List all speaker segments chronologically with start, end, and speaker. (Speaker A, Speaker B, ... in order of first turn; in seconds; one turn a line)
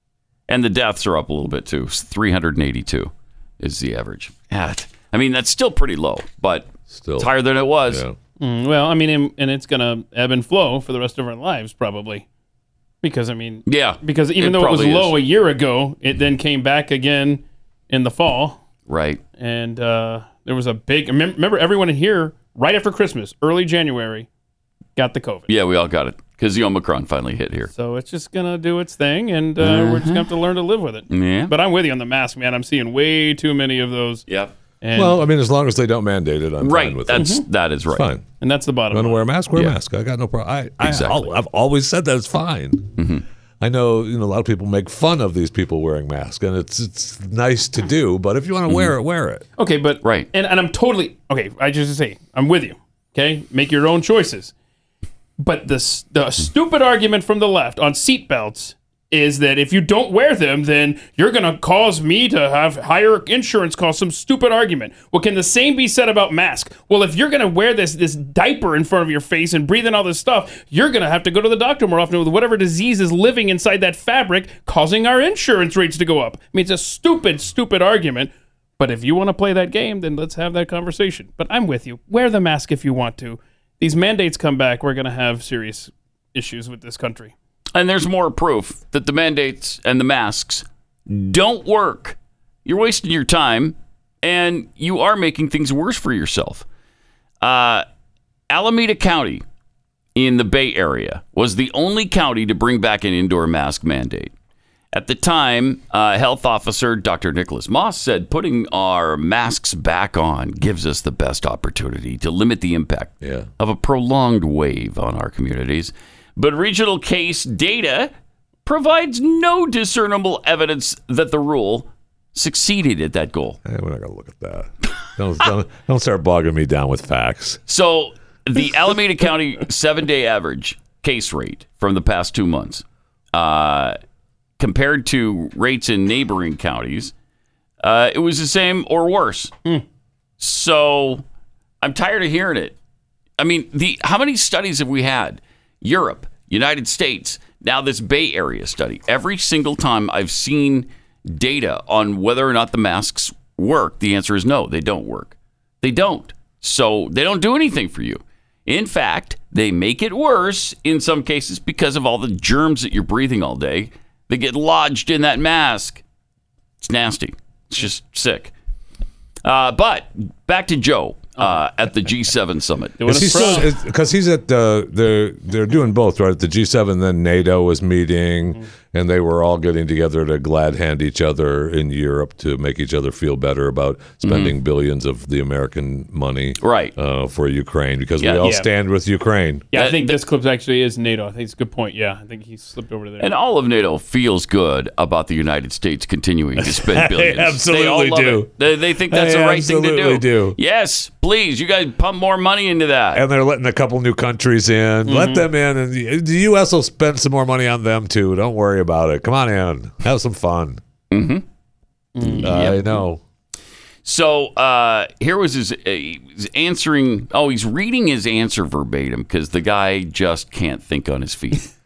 Speaker A: 0.5-8.0
Speaker B: 6.9-7.3
Speaker B: 7.9-8.2
Speaker C: 8.4-12.3
Speaker C: 13.0-18.6
Speaker A: 13.7-15.2
Speaker A: 18.9-19.2
Speaker C: 19.4-24.3
Speaker C: 25.0-25.5
Speaker A: 25.5-27.7
Speaker C: 27.8-34.3
Speaker A: 29.6-30.1
Speaker A: 31.1-31.5
Speaker A: 34.3-34.5
Speaker C: 34.8-35.2
Speaker B: 35.0-37.3
Speaker A: 36.6-38.1
Speaker C: 37.1-37.5
Speaker B: 37.9-38.3
Speaker C: 38.4-39.2
Speaker B: 38.9-42.9
Speaker A: 40.8-41.3
Speaker A: 43.0-43.2
Speaker B: 43.6-49.5
Speaker C: 49.6-54.5
Speaker A: 50.0-50.3
Speaker C: 55.4-87.3
Speaker A: 87.7-96.7
Speaker A: 97.4-97.9
Speaker A: 98.5-99.4
Speaker A: 100.2-104.3
Speaker A: 104.9-118.1
Speaker B: 113.2-113.5
Speaker A: 118.7-123.6
Speaker B: 123.7-127.6
Speaker A: 127.7-134.0
Speaker A: 134.6-137.1
Speaker A: 137.8-139.5
Speaker A: 140.4-141.2
Speaker A: 141.8-142.8
Speaker A: 143.4-166.0
Speaker A: 166.8-168.5
Speaker A: 169.4-173.6
Speaker C: 173.0-173.8
Speaker B: 173.1-189.7
Speaker A: 184.2-184.6
Speaker A: 186.6-186.9
Speaker C: 188.4-188.7
Speaker C: 189.7-193.3
Speaker A: 189.8-190.2
Speaker A: 193.2-203.2
Speaker B: 196.6-198.5
Speaker B: 199.1-200.6
Speaker B: 203.1-210.8
Speaker C: 205.1-205.5
Speaker A: 211.1-211.4
Speaker C: 212.2-212.7
Speaker B: 212.2-213.2
Speaker A: 212.4-213.0
Speaker A: 214.1-221.7